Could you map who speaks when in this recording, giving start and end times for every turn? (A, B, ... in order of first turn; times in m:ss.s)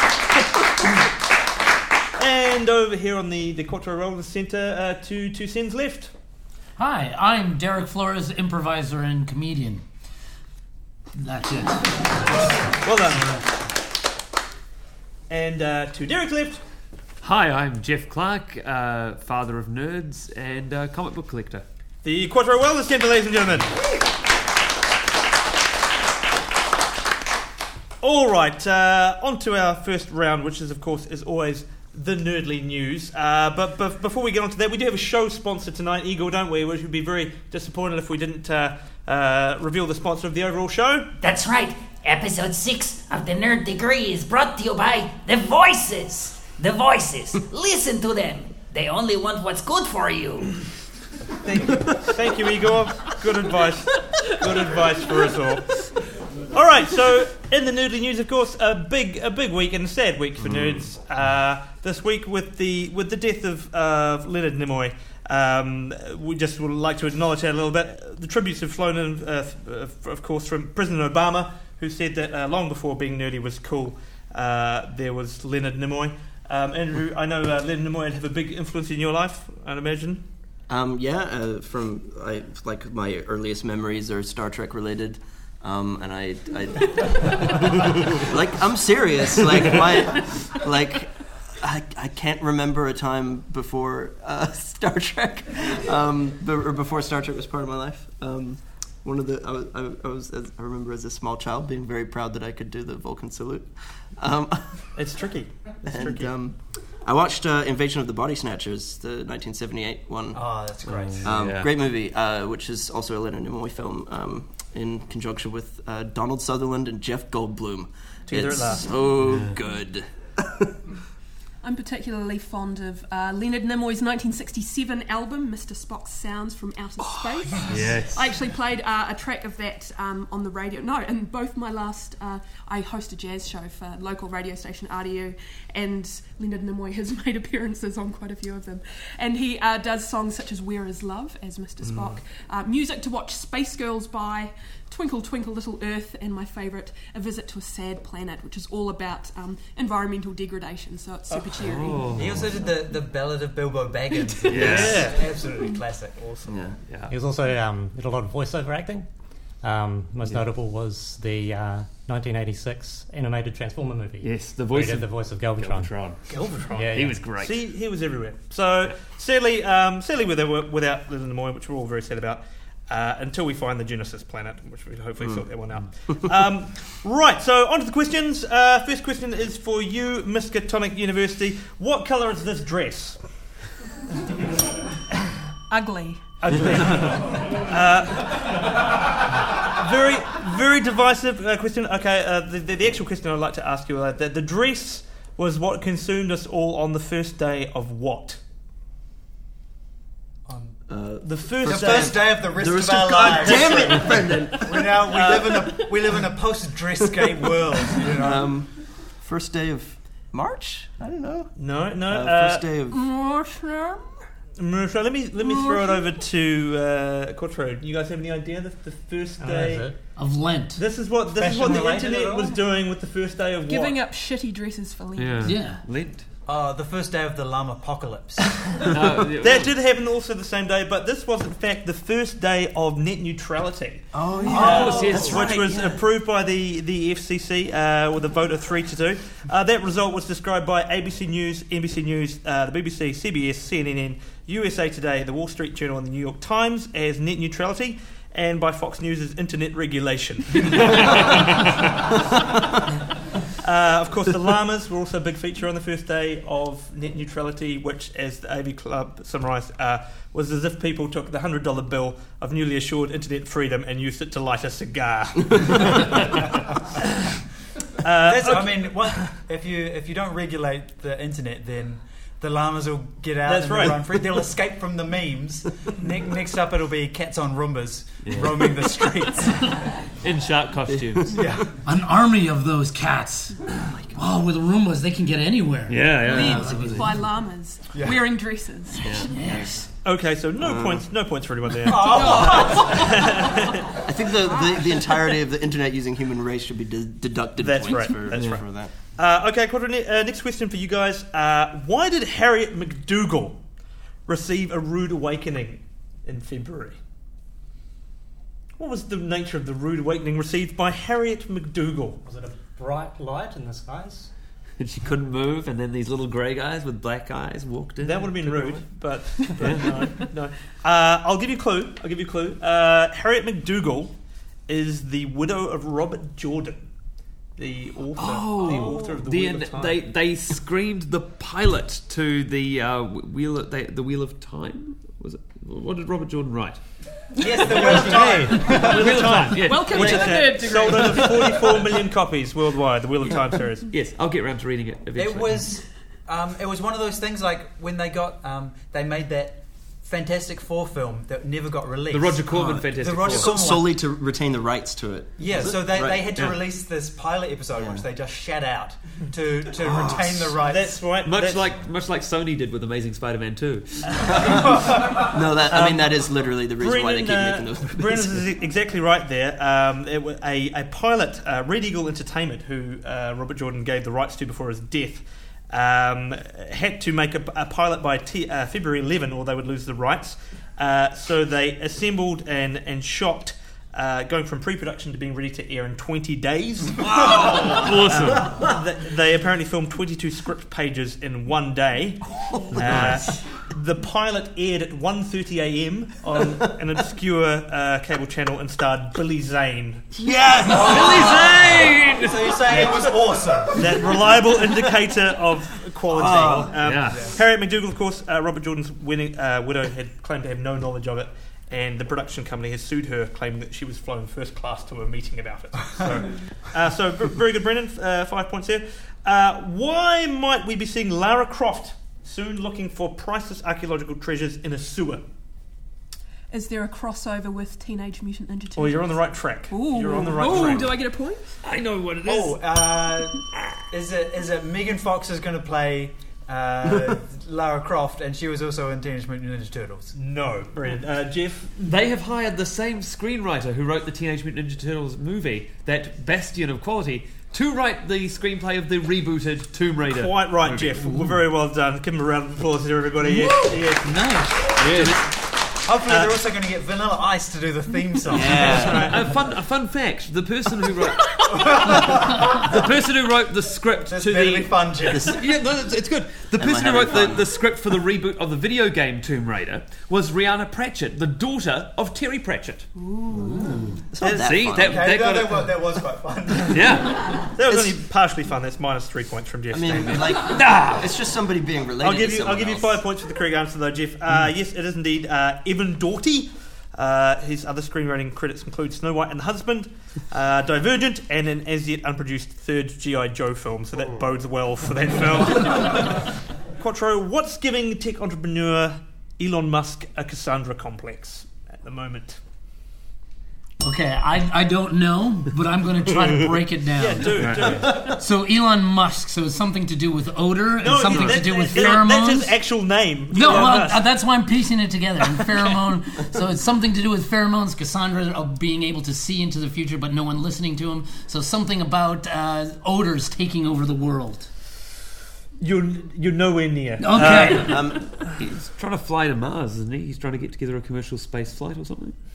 0:02.2-0:06.1 A
0:06.8-0:09.8 B
0:11.2-0:12.0 B
0:12.8-0:13.4 A
0:15.3-0:16.6 A
0:17.2-0:21.7 C
0:22.0-0:23.7 A
0:28.0-0:41.1 A
0:41.2-0:50.5 D
0:51.4-0:55.8 A
0:56.5-1:20.2 A
1:00.4-1:00.8 C
1:20.7-1:44.6 E
1:45.0-1:46.3 A
1:45.8-1:50.4 E
1:50.3-1:51.3 F
1:50.9-1:51.7 C
1:51.2-2:00.7 E
1:58.3-1:58.9 A
1:59.2-1:59.5 C
2:01.6-2:32.2 G
2:07.2-2:08.3 C
2:21.8-2:22.2 A
2:31.5-2:32.6 C
2:32.1-2:36.4 F
2:34.5-2:35.2 C
2:34.5-2:35.3 A
2:36.4-2:36.8 E
2:36.9-2:37.1 C
2:37.1-2:39.1 H
2:39.6-2:45.9 H
2:44.2-2:46.2 C
2:46.3-3:03.2 A
2:46.7-2:47.2 H
2:46.9-2:47.6 C
3:05.7-3:06.2 G
3:06.4-3:08.6 A
3:09.6-3:18.4 A
3:20.5-3:20.8 F
3:20.9-3:25.1 E
3:21.2-3:22.3 A
3:21.6-3:28.5 F
3:23.2-3:24.4 A
3:25.1-3:25.7 A
3:28.2-3:31.5 E
3:31.6-3:32.7 A
3:32.1-3:33.0 E
3:32.9-3:34.2 G
3:34.6-3:39.9 A
3:35.4-3:36.1 G
3:39.4-3:40.0 H
3:40.1-3:40.8 B
3:40.8-3:44.0 A
3:41.4-3:42.6 F
3:43.7-3:45.6 G
3:45.2-3:46.2 C
3:45.4-3:45.8 B
3:46.4-3:48.4 F
3:48.8-3:49.7 C
3:49.4-4:12.2 A
3:54.1-3:55.2 E
3:54.4-3:55.6 F
3:54.4-3:56.0 C
4:10.8-4:11.5 C
4:13.6-4:27.3 A
4:28.0-4:29.3 A
4:28.2-4:39.7 F
4:33.5-4:34.2 A
4:38.2-4:38.7 C
4:40.2-4:41.4 C
4:40.9-4:41.3 E
4:41.3-4:41.6 F
4:41.8-4:43.6 B
4:43.7-4:44.2 E
4:44.1-4:46.8 B
4:45.9-4:47.1 C
4:46.2-4:49.2 G
4:47.9-4:48.2 F
4:49.0-4:49.3 C
4:49.3-4:49.7 B
4:49.4-4:49.8 E
4:50.0-4:54.0 A
4:50.6-4:51.1 E
4:51.9-4:53.3 F
4:52.0-4:53.1 G
4:54.0-4:58.9 E
4:57.6-4:58.6 A
4:58.3-4:58.6 C
4:59.1-5:03.6 A
5:04.3-5:07.0 A
5:08.8-5:12.2 A
5:12.2-5:14.3 H
5:14.8-5:18.8 C
5:18.0-5:24.1 A
5:19.4-5:19.7 G
5:19.6-5:20.1 C
5:24.7-5:26.8 A
5:27.6-5:30.0 A
5:28.2-5:36.8 C
5:37.4-5:39.1 F
5:37.5-5:41.8 C
5:37.9-5:43.9 A
5:39.6-5:41.7 G
5:43.9-5:45.7 C
5:45.2-5:54.0 F
5:52.1-5:53.5 C
5:52.5-5:56.3 E
5:55.4-6:01.0 F
5:57.7-5:58.0 E
5:59.8-6:00.2 E
5:59.9-6:00.5 C
6:00.6-6:01.6 A
6:01.2-6:04.7 C
6:04.3-6:08.5 E
6:04.8-6:05.2 F
6:05.7-6:06.1 A
6:06.8-6:40.1 A
6:27.0-6:28.7 C
6:32.7-6:33.2 E
6:32.7-6:33.3 C
6:40.2-6:41.7 E
6:40.7-6:42.9 C
6:40.7-6:41.5 F
6:42.1-6:43.9 F
6:43.7-7:05.2 A
6:46.1-6:46.8 E
6:46.8-6:47.3 C
7:06.5-7:11.5 G
7:08.8-7:11.0 A
7:10.2-7:10.8 C
7:11.6-7:12.6 C
7:12.2-7:20.1 F
7:13.5-7:13.8 C
7:20.1-7:21.7 A
7:21.8-7:31.4 C
7:30.1-7:35.1 A
7:34.1-7:34.8 F
7:34.8-7:35.2 C
7:35.8-7:38.8 F
7:36.1-7:36.4 A
7:38.3-7:39.1 E
7:38.3-7:52.9 C
7:38.4-7:39.2 A
7:41.5-7:42.4 F
7:44.0-7:45.4 F
7:45.1-7:45.4 E
7:46.5-7:47.5 E
7:54.1-7:55.1 E
7:54.2-7:54.6 A
7:54.3-7:55.7 C
7:54.7-7:57.0 F
7:56.7-7:57.3 C
7:57.5-8:00.4 A
7:57.7-7:58.0 E
7:59.7-8:03.0 E
8:00.4-8:01.1 C
8:02.0-8:22.4 A
8:23.8-8:32.6 B
8:27.0-8:28.1 A
8:27.4-8:27.9 C
8:27.8-8:28.0 E
8:30.8-8:34.0 A
8:31.1-8:31.4 C
8:33.3-8:44.5 B
8:45.6-8:47.8 A
8:47.0-8:47.9 B
8:47.1-8:48.0 E
8:48.4-8:52.1 C